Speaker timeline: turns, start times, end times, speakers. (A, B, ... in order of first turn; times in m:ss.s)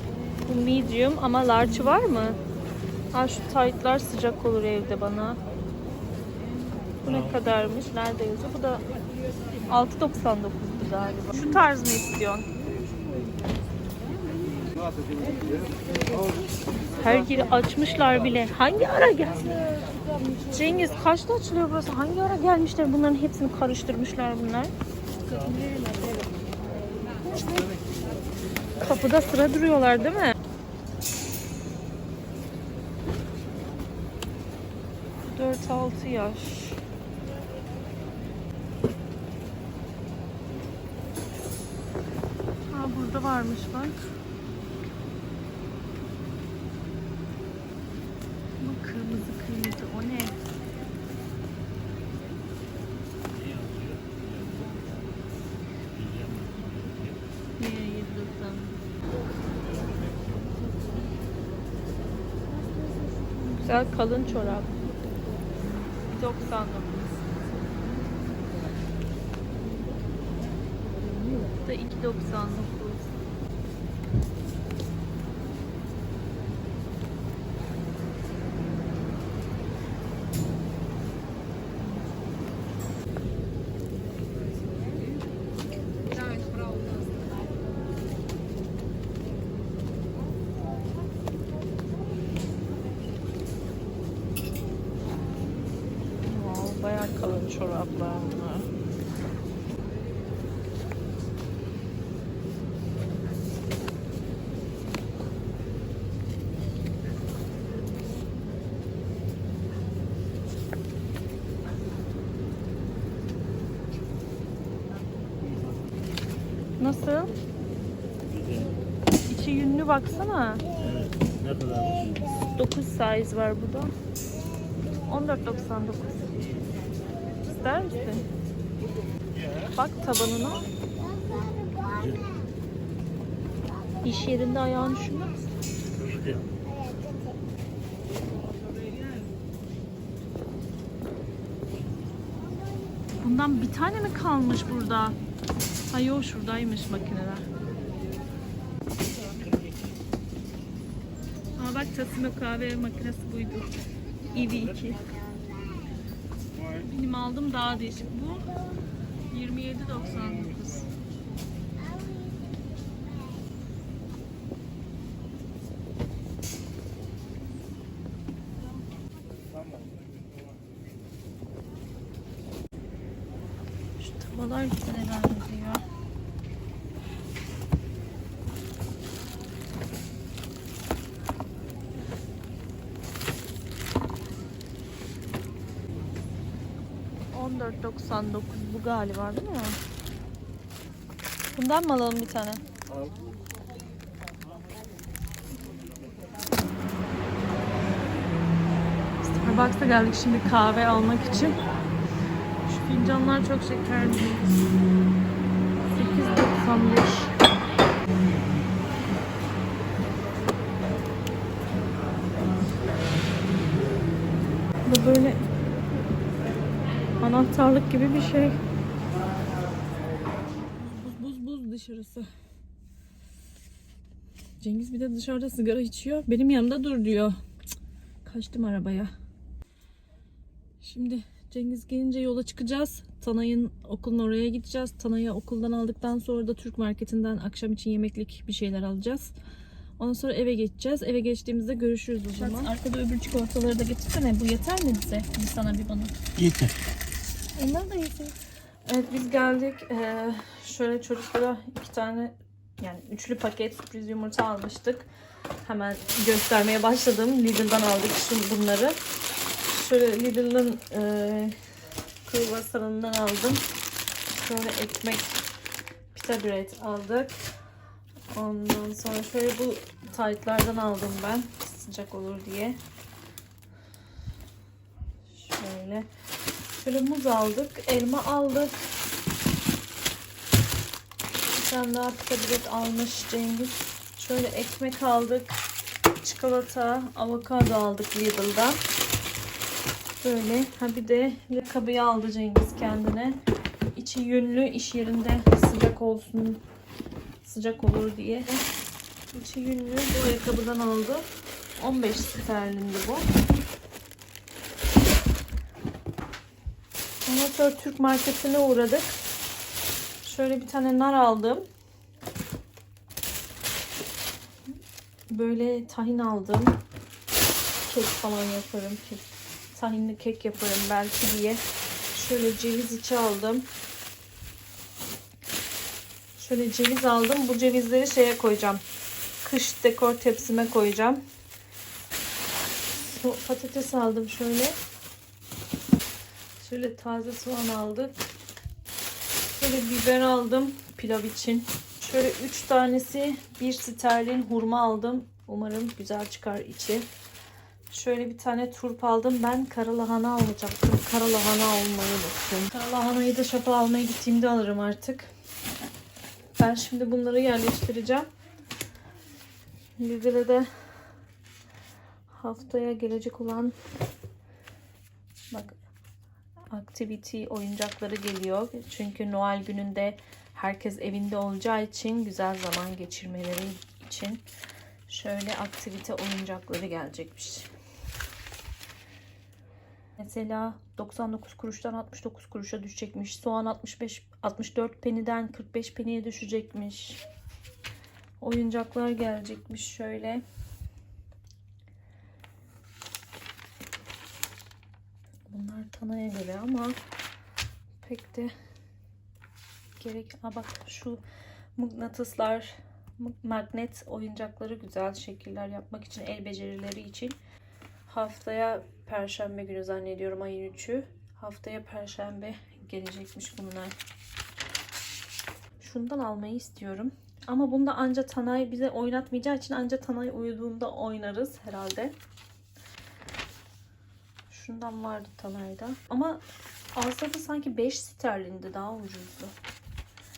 0:00.5-0:02.4 A
0:03.1-0:05.4 A
0:07.0-0:08.9 A
0:07.0-0:07.4 B
0:09.7-0:12.5 A
0:17.0-0:19.9 A
0:20.5-0:24.7 A
0:25.3-0:26.2 A
0:28.8-0:30.4 A
0:35.2-0:36.8 A
0:42.7-0:44.1 A
0:48.6-0:50.4 A
0:53.2-0:55.1 B
0:55.9-0:57.3 B
0:57.6-0:58.8 A
1:03.6-1:04.8 A
1:06.1-1:07.0 A
1:11.6-1:13.1 A
1:36.2-1:38.7 A
1:55.4-1:56.1 B
1:56.8-1:57.3 A
1:58.3-1:58.8 B
1:59.3-2:00.6 A
2:00.8-2:02.2 B
2:02.6-2:03.9 A
2:05.1-2:06.3 A
2:07.4-2:08.3 A
2:09.4-2:09.7 B
2:09.8-2:10.7 A
2:11.8-2:12.3 B
2:14.0-2:15.5 A
2:15.9-2:16.5 B
2:23.2-2:25.2 A
2:25.9-2:27.5 A
2:31.6-2:33.7 A
2:34.3-2:35.0 A
2:36.8-2:38.6 A
2:39.3-2:40.9 A
2:54.0-2:55.9 A
3:07.3-3:09.8 A
3:11.5-3:12.6 A
3:19.3-3:21.6 A
3:22.7-3:24.5 A
3:25.9-3:27.3 A
3:34.9-3:35.4 A
3:37.2-3:38.6 A
3:40.8-3:42.3 A
3:44.6-3:47.4 A
3:48.2-3:49.1 A
3:50.8-3:59.4 A
4:00.0-4:06.2 A
4:06.4-4:06.8 B
4:07.6-4:08.4 A
4:08.9-4:15.1 A
4:15.6-4:19.0 A
4:19.7-4:21.6 A
4:22.3-4:23.6 A
4:24.4-4:25.4 A
4:26.1-4:27.4 A
4:28.3-4:32.8 A
4:35.3-4:36.1 A
4:36.8-4:38.8 A
4:41.4-4:45.6 A
4:46.2-4:48.8 A
4:50.2-4:53.4 A
4:53.9-4:56.6 A
4:57.4-4:58.6 A
4:59.3-5:03.3 A
5:07.3-5:09.2 A
5:10.2-5:11.6 A
5:15.3-5:16.8 A
5:17.8-5:23.7 A
5:26.4-5:28.8 A
5:29.4-5:31.2 A
5:33.0-5:34.8 A
5:36.6-5:38.2 A
5:39.6-5:47.1 A
5:47.9-5:55.3 A
5:56.6-5:58.3 A
6:00.0-6:00.7 A
6:02.3-6:03.8 A
6:05.5-6:05.8 A
6:06.7-6:14.4 A
6:15.1-6:17.7 A
6:20.2-6:27.2 A
6:28.4-6:30.4 A
6:35.5-6:37.0 A
6:38.0-6:38.5 A
6:40.0-6:41.2 A
6:41.8-6:47.4 A
6:48.1-6:54.0 A
6:55.8-7:02.2 A
7:04.5-7:06.4 A
7:07.0-7:09.5 A